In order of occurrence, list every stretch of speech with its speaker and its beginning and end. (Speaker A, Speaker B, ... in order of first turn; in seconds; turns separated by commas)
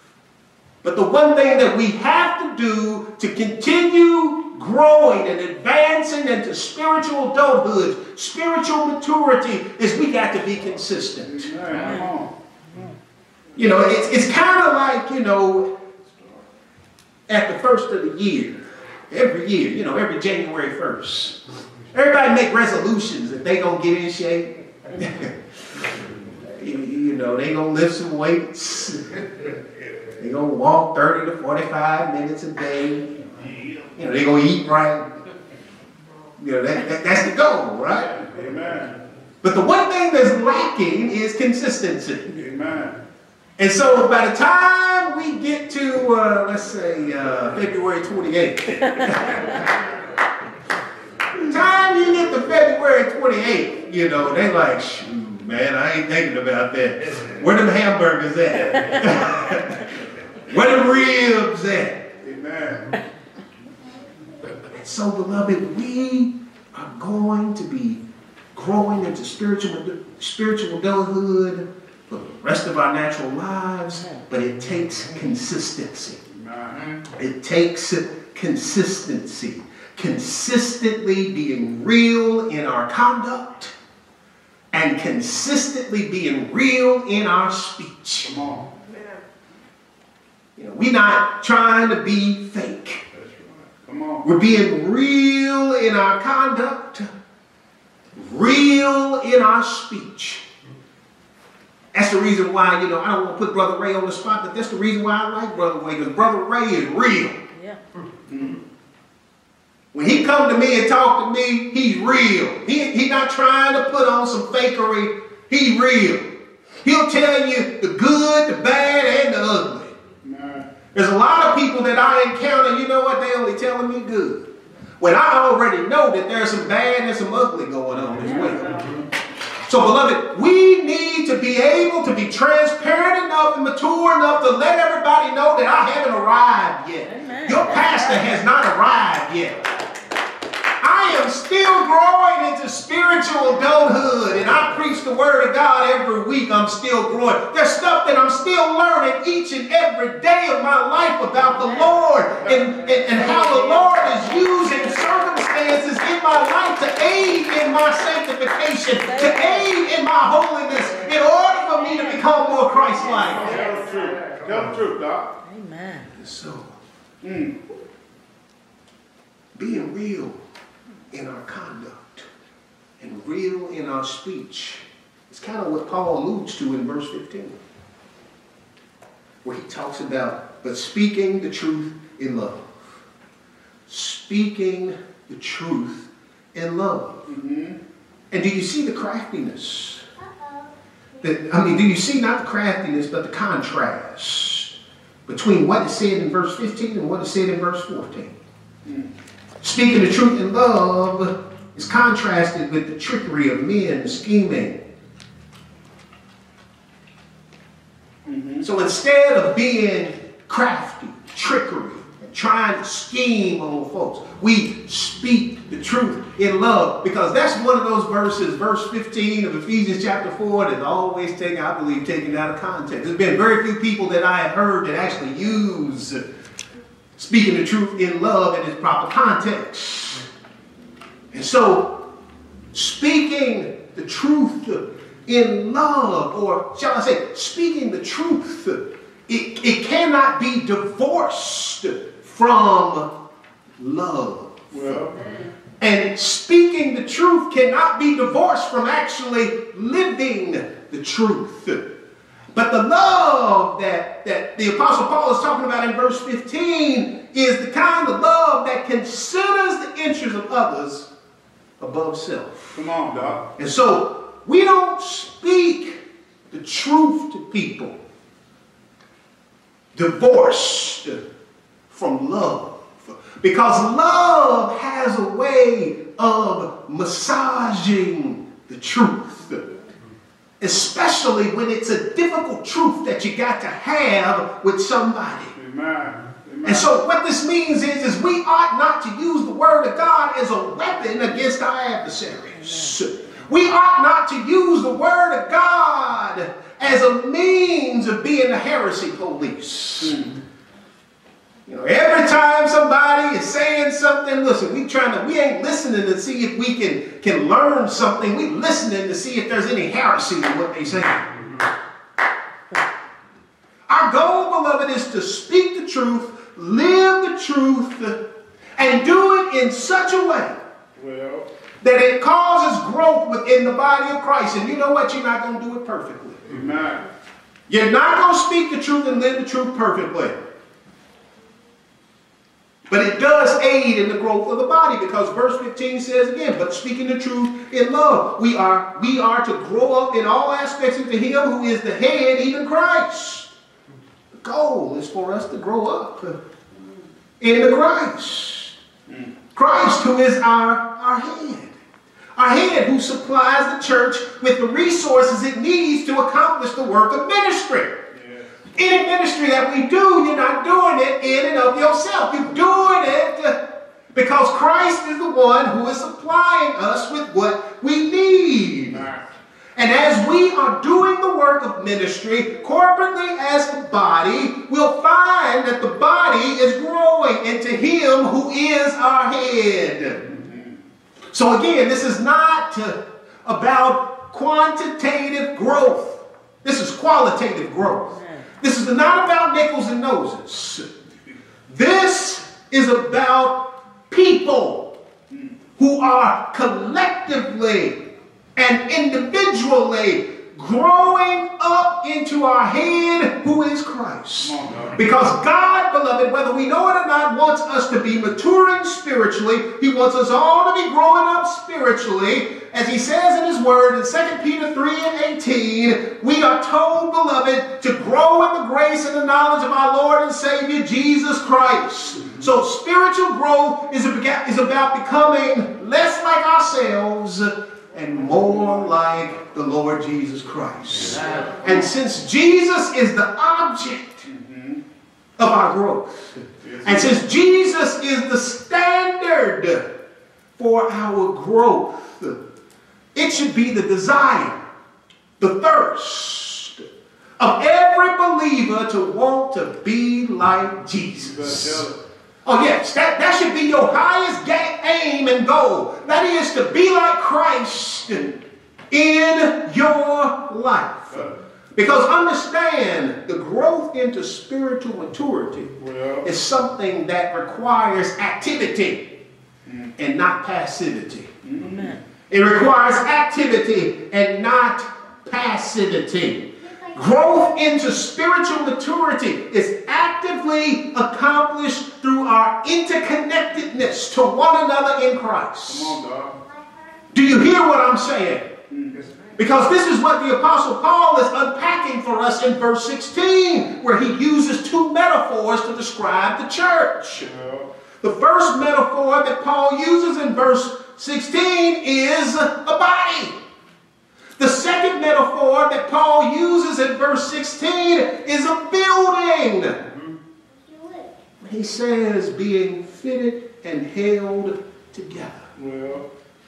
Speaker A: 0.8-11.5, Speaker B: 11.2-12.3, Speaker A: 13.6-15.7, Speaker A: 17.3-21.4, Speaker A: 21.9-25.3, Speaker A: 26.4-29.5, Speaker A: 30.2-33.1, Speaker A: 34.0-35.1, Speaker A: 36.4-38.1, Speaker B: 38.0-39.0, Speaker A: 39.4-42.3, Speaker B: 42.3-43.0, Speaker A: 43.6-49.6, Speaker A: 51.4-59.9, Speaker A: 60.5-62.0, Speaker B: 62.2-63.0, Speaker A: 64.7-68.0, Speaker A: 68.5-76.2, Speaker B: 76.3-77.0, Speaker A: 77.1-83.7, Speaker A: 84.7-88.3, Speaker B: 88.2-88.7, Speaker A: 90.6-93.0, Speaker B: 93.1-94.3, Speaker A: 94.2-97.1, Speaker A: 98.2-100.5, Speaker A: 101.9-107.4, Speaker C: 107.5-107.8, Speaker B: 108.3-108.6, Speaker A: 109.9-116.3, Speaker A: 116.8-120.0, Speaker B: 120.2-120.7, Speaker A: 120.9-124.5, Speaker A: 125.0-128.8, Speaker A: 129.6-139.6, Speaker C: 137.0-138.0, Speaker A: 140.8-163.5, Speaker B: 152.4-152.8, Speaker C: 153.2-155.2, Speaker C: 159.0-159.7, Speaker C: 163.3-163.7, Speaker B: 163.3-165.3, Speaker C: 165.4-166.1, Speaker A: 166.2-166.7, Speaker B: 167.2-167.6, Speaker A: 169.5-170.4, Speaker A: 171.1-172.3, Speaker A: 173.0-177.6, Speaker A: 179.4-183.0, Speaker A: 183.9-187.2, Speaker B: 187.3-187.8, Speaker A: 188.3-190.1, Speaker A: 191.2-194.7, Speaker A: 195.3-198.3, Speaker A: 199.6-204.8, Speaker B: 208.2-208.6, Speaker A: 208.6-226.2, Speaker A: 227.2-230.3, Speaker A: 231.3-232.0, Speaker A: 232.7-243.1, Speaker A: 243.8-245.0, Speaker B: 244.7-245.2, Speaker A: 245.8-251.9, Speaker A: 252.5-261.1, Speaker A: 261.8-262.8, Speaker B: 262.7-263.4, Speaker A: 263.6-268.0, Speaker A: 269.9-271.2, Speaker A: 271.9-279.7, Speaker A: 280.6-285.5, Speaker B: 285.5-287.0, Speaker A: 286.6-300.2, Speaker C: 292.6-293.0, Speaker B: 300.0-300.4, Speaker A: 301.7-311.2, Speaker A: 313.9-318.2, Speaker A: 318.8-320.6, Speaker B: 320.9-321.5, Speaker A: 321.8-326.4, Speaker B: 326.4-327.0, Speaker A: 327.7-330.4, Speaker A: 332.9-343.5, Speaker A: 344.3-346.4, Speaker A: 347.4-348.7, Speaker A: 349.5-351.7, Speaker A: 352.4-358.0, Speaker B: 358.1-358.4, Speaker A: 358.8-363.6, Speaker A: 364.1-369.1, Speaker B: 368.9-369.2, Speaker A: 369.8-380.3, Speaker B: 380.3-380.6, Speaker A: 381.3-390.9, Speaker C: 388.1-388.4, Speaker A: 391.7-394.9, Speaker A: 395.8-434.3, Speaker B: 404.4-405.0, Speaker B: 431.2-431.7, Speaker B: 434.3-434.8, Speaker A: 435.4-439.9, Speaker B: 436.6-437.2, Speaker A: 440.6-442.4, Speaker A: 443.1-444.6, Speaker A: 445.4-446.9, Speaker A: 447.4-451.9, Speaker B: 451.2-451.9, Speaker A: 452.4-458.4, Speaker A: 458.9-469.1, Speaker B: 465.8-466.3, Speaker A: 470.0-471.3, Speaker B: 471.4-472.0, Speaker C: 471.6-472.0, Speaker A: 472.3-486.0, Speaker B: 485.6-486.4, Speaker A: 487.1-488.5, Speaker B: 488.7-489.0, Speaker A: 489.4-497.3, Speaker B: 497.2-497.7, Speaker A: 498.0-503.4, Speaker A: 504.4-509.8, Speaker A: 511.4-515.4, Speaker B: 515.5-516.0